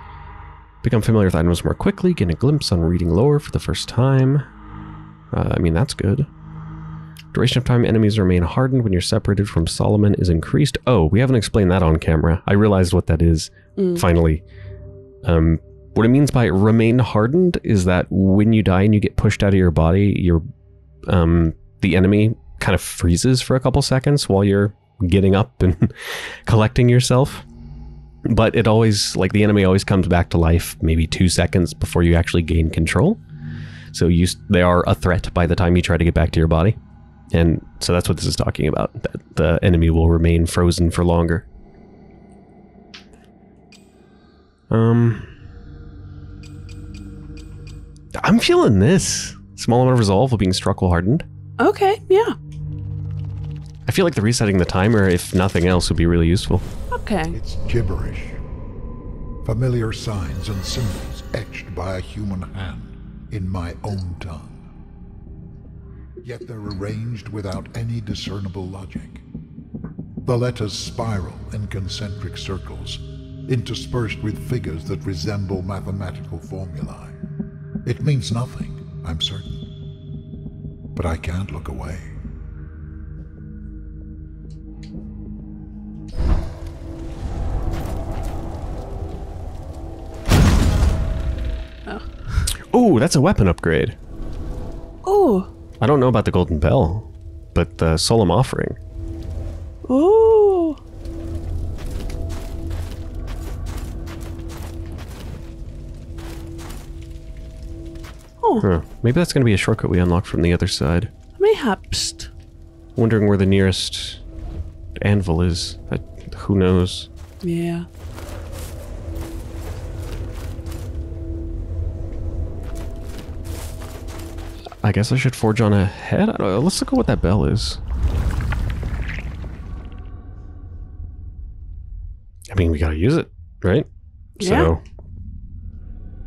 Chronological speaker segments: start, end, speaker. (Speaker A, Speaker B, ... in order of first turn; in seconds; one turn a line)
Speaker A: 0.8-4.5
Speaker A: 5.3-6.3
Speaker A: 7.3-14.4
Speaker B: 13.8-14.1
Speaker A: 15.2-20.4
Speaker A: 21.1-27.4
Speaker A: 28.2-33.2
Speaker A: 33.9-36.8
Speaker A: 37.3-41.4
Speaker A: 44.7-45.3
Speaker A: 48.1-51.2
Speaker B: 51.6-52.4
Speaker A: 53.9-56.6
Speaker B: 56.9-57.4
Speaker C: 57.3-58.4
Speaker C: 59.4-64.6
Speaker C: 66.2-69.2
Speaker C: 70.2-77.2
Speaker C: 77.8-79.6
Speaker C: 80.9-82.1
Speaker B: 91.8-92.5
Speaker A: 92.7-94.0
Speaker B: 95.0-95.5
Speaker A: 95.8-98.8
Speaker B: 99.9-100.8
Speaker A: 108.6-111.1
Speaker B: 111.4-112.3
Speaker A: 113.0-114.2
Speaker A: 115.0-117.1
Speaker B: 117.4-117.9
Speaker A: 124.8-127.8
Speaker A: 132.5-133.9
Speaker B: 134.4-134.7
Speaker A: 134.4-134.8